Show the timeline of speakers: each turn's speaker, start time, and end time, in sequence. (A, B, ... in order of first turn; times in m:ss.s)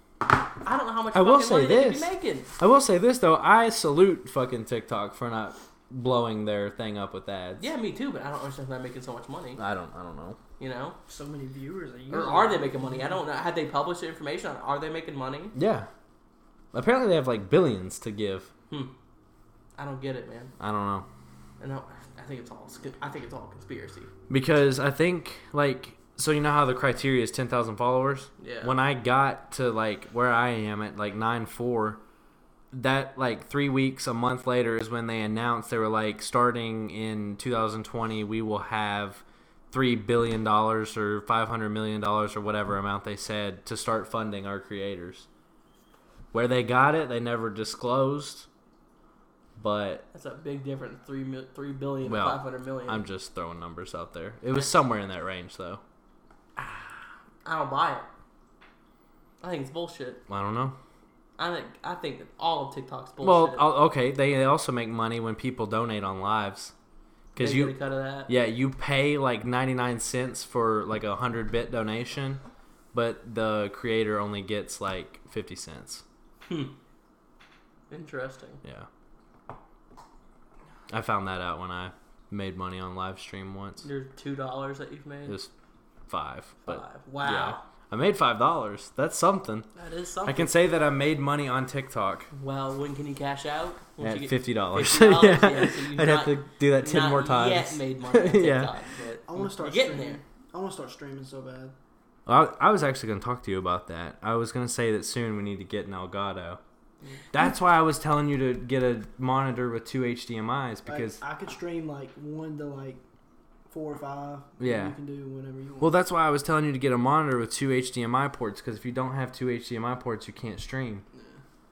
0:00.6-0:02.5 A
0:01.1-0:07.6 B
0:07.6-0:09.6 A
0:09.6-0:10.4 B
0:10.6-0:11.0 A
0:11.1-0:13.2 C
0:12.1-0:15.5 A
0:15.5-0:15.9 B
0:16.7-0:18.5 B
0:19.8-0:20.5 A
0:20.6-0:21.1 B
0:21.6-0:24.1 A
0:24.3-0:32.0 B
0:28.4-0:28.7 A
0:32.7-0:45.3 B
0:46.3-0:48.5 B
0:49.6-0:50.0 B
0:50.1-0:53.0 A
0:52.0-0:55.8 B
0:56.6-0:58.1 A
0:59.4-1:00.2 A
1:00.3-1:00.8 B
1:01.4-1:03.6 A
1:03.2-1:06.7 B
1:07.3-1:07.8 B
1:07.4-1:08.3 A
1:08.3-1:12.4 B
1:12.9-1:16.0 B
1:16.5-1:16.7 A
1:17.9-1:18.6 A
1:20.9-1:23.8 B
1:23.8-1:25.4 A
1:26.1-1:29.7 B
1:26.6-1:27.6 A
1:29.8-1:30.5 A
1:30.2-1:32.3 B
1:32.3-1:40.2 A
1:34.0-1:38.7 B
1:39.3-1:41.7 C
1:42.2-1:46.6 B
1:47.3-1:51.2 B
1:50.8-1:53.0 C
1:53.7-1:55.9 C
1:54.6-1:54.9 B
1:55.8-2:01.0 B
2:01.1-2:01.4 C